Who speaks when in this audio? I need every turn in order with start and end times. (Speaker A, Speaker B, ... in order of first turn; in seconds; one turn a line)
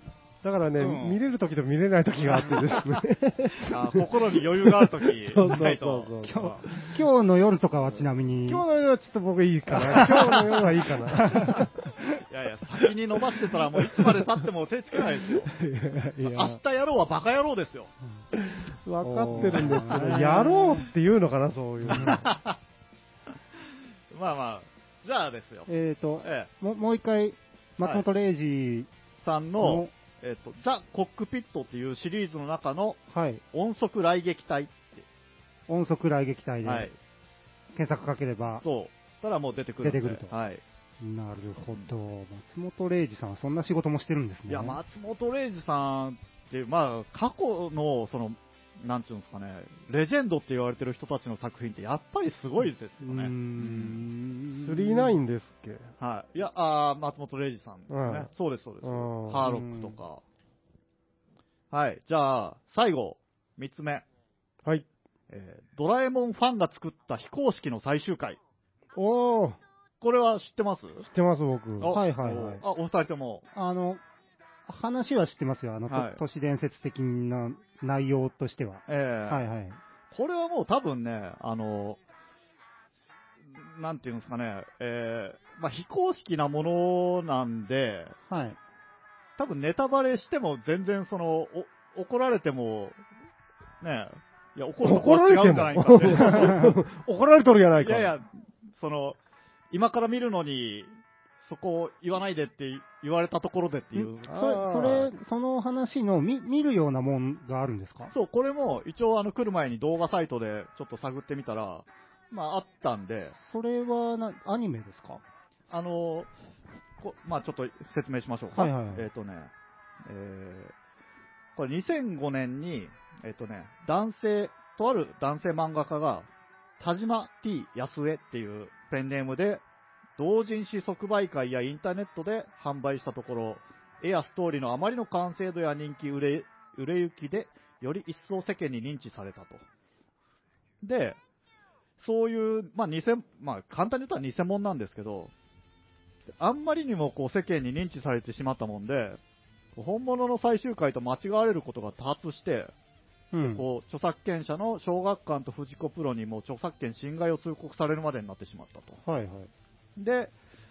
Speaker A: 0.4-7.0
Speaker B: 0.8-1.2
Speaker B: 2.3-2.8
Speaker B: 3.6-6.5
Speaker C: 6.2-8.7
Speaker A: 8.4-11.7
Speaker B: 9.8-10.4
Speaker C: 9.9-10.4
Speaker C: 11.1-12.0
Speaker B: 12.3-15.6
Speaker A: 15.4-16.6
Speaker B: 16.2-17.9
Speaker A: 18.3-22.3
Speaker C: 19.0-20.9
Speaker B: 19.3-20.3
Speaker B: 21.8-22.6
Speaker C: 21.9-22.2
Speaker B: 24.1-25.7
Speaker C: 25.7-28.9
Speaker B: 26.2-26.5
Speaker B: 29.2-33.0
Speaker C: 29.6-29.9
Speaker C: 33.1-33.4
Speaker B: 33.5-35.0
Speaker C: 35.7-36.9
Speaker B: 36.6-37.0
Speaker C: 37.7-38.6
Speaker B: 38.6-40.6
Speaker C: 39.8-40.3
Speaker C: 41.0-44.8
Speaker B: 44.5-54.0
Speaker C: 53.0-55.2
Speaker A: 54.6-55.9
Speaker B: 56.0-60.2
Speaker A: 57.9-58.3
Speaker A: 58.8-59.5
Speaker C: 59.4-60.0
Speaker B: 61.7-64.0
Speaker B: 65.3-68.4
Speaker A: 69.0-69.6
Speaker B: 70.0-71.1
Speaker A: 71.1-72.0
Speaker B: 71.8-73.5
Speaker C: 71.9-72.6
Speaker C: 73.5-74.0
Speaker C: 74.7-79.8
Speaker B: 75.9-76.2
Speaker B: 78.9-79.5
Speaker B: 80.1-82.0
Speaker B: 83.5-88.1
Speaker C: 88.3-88.6
Speaker B: 89.4-93.0
Speaker B: 93.8-96.7
Speaker A: 94.8-98.1
Speaker C: 96.2-96.7
Speaker B: 97.8-99.2
Speaker B: 99.7-100.9
Speaker B: 101.4-105.1
Speaker A: 104.3-105.0
Speaker C: 104.3-108.1
Speaker B: 108.1-113.3
Speaker C: 113.3-115.2
Speaker B: 115.7-116.3
Speaker B: 117.0-119.5
Speaker C: 118.5-119.1
Speaker B: 120.0-120.7
Speaker B: 121.5-126.3
Speaker B: 126.8-129.6
Speaker B: 130.2-139.6
Speaker B: 140.8-141.2
Speaker B: 142.0-145.3
Speaker B: 146.4-149.2
Speaker B: 149.8-152.7
Speaker C: 153.3-153.6
Speaker B: 153.4-159.0
Speaker C: 159.1-159.5
Speaker B: 160.0-160.3